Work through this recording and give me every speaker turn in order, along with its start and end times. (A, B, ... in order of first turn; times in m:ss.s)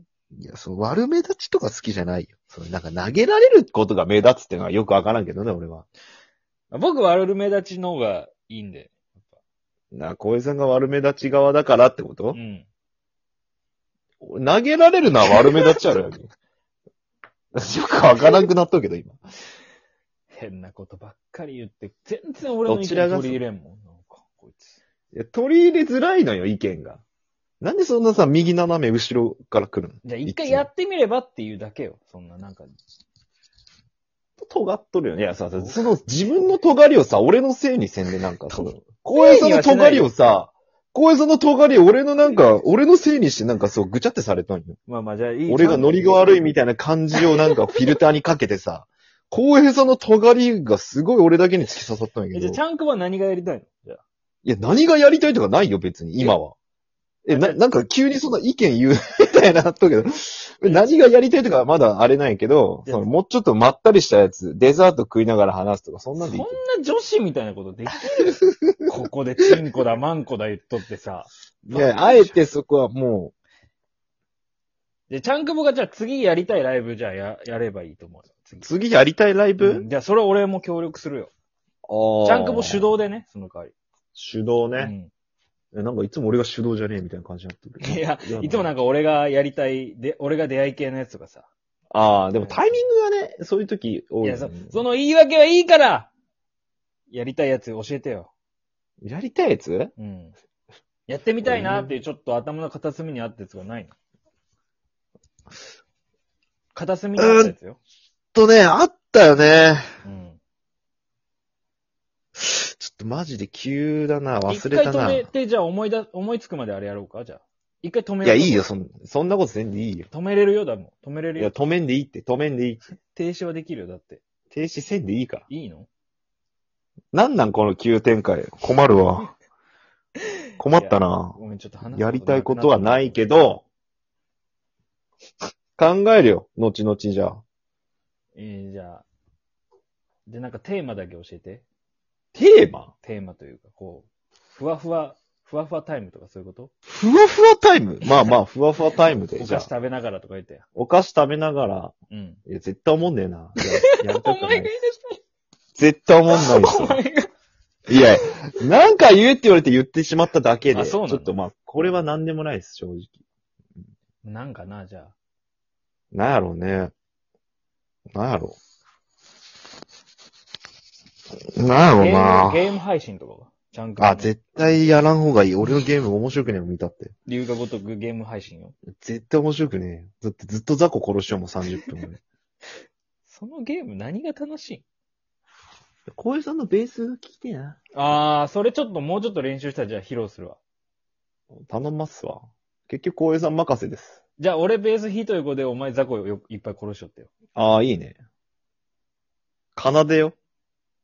0:00.3-0:05.9 A
0:06.7-0:09.0 B
0:09.9-0:12.4 A
0:12.3-0:12.7 B
0:14.2-0:16.3 A
0:17.6-0:19.2 A
0:20.3-0:24.8 B
0:22.6-0:23.4 A
0:25.1-0:27.0 A
0:27.6-0:30.7 A
0:30.0-0:32.7 B
0:34.4-0:44.8 A
0:35.6-0:36.0 B
0:38.5-0:40.1 B
0:44.9-0:46.2 B
0:45.5-0:52.6 A
0:52.3-0:54.0 B
0:54.4-0:56.5 A
0:57.2-1:06.6 A
0:57.3-0:57.6 B
1:00.6-1:00.9 B
1:02.8-1:03.1 B
1:06.2-1:12.4 B
1:08.4-1:08.9 A
1:11.6-1:13.3 A
1:15.1-1:18.7 B
1:18.6-1:19.8 A
1:19.6-1:21.3 B
1:21.9-1:22.9 A
1:22.2-1:23.7 B
1:24.1-1:24.9 A
1:24.8-1:25.1 B
1:25.7-1:28.7 A
1:27.8-1:31.5 B
1:31.9-1:34.8 A
1:32.3-1:32.8 B
1:34.2-1:36.1 B
1:37.1-1:38.3 B
1:39.0-1:39.9 A
1:40.0-1:40.3 B
1:41.1-1:43.9 B
1:41.4-1:41.9 A
1:46.7-1:47.8 B
1:47.2-1:47.5 A
1:48.3-1:49.9 A
1:50.0-1:50.4 B
1:52.4-1:55.3 A
1:54.5-1:58.7 B
1:58.2-2:00.1 A
2:00.1-2:01.5 B
2:01.4-2:02.8 A
2:03.1-2:04.2 B
2:04.5-2:05.5 A
2:05.5-2:05.9 B
2:07.1-2:09.3 A
2:10.6-2:13.6 A
2:10.7-2:13.2 B
2:15.8-2:17.4 A
2:18.3-2:19.0 B
2:20.2-2:21.6 B
2:22.3-2:22.9 A
2:23.0-2:26.7 B
2:26.9-2:29.7 A
2:29.4-2:30.6 B
2:30.7-2:31.9 A
2:32.1-2:32.4 B
2:32.4-2:34.7 A
2:33.6-2:35.2 B
2:35.8-2:37.0 A
2:36.3-2:37.3 B
2:37.9-2:43.2 A
2:40.7-2:41.3 B
2:44.2-2:45.1 B
2:46.1-2:46.9 A
2:48.1-2:48.6 A
2:51.6-2:52.6 A
2:52.0-2:54.4 B
2:54.0-2:57.1 A
2:57.3-2:58.7 B
2:58.9-3:02.2 A
3:03.3-3:04.8 B
3:06.1-3:07.8 A
3:07.9-3:10.6 B
3:11.7-3:14.2 A
3:14.4-3:17.3 B
3:17.5-3:18.2 A
3:19.8-3:20.3 A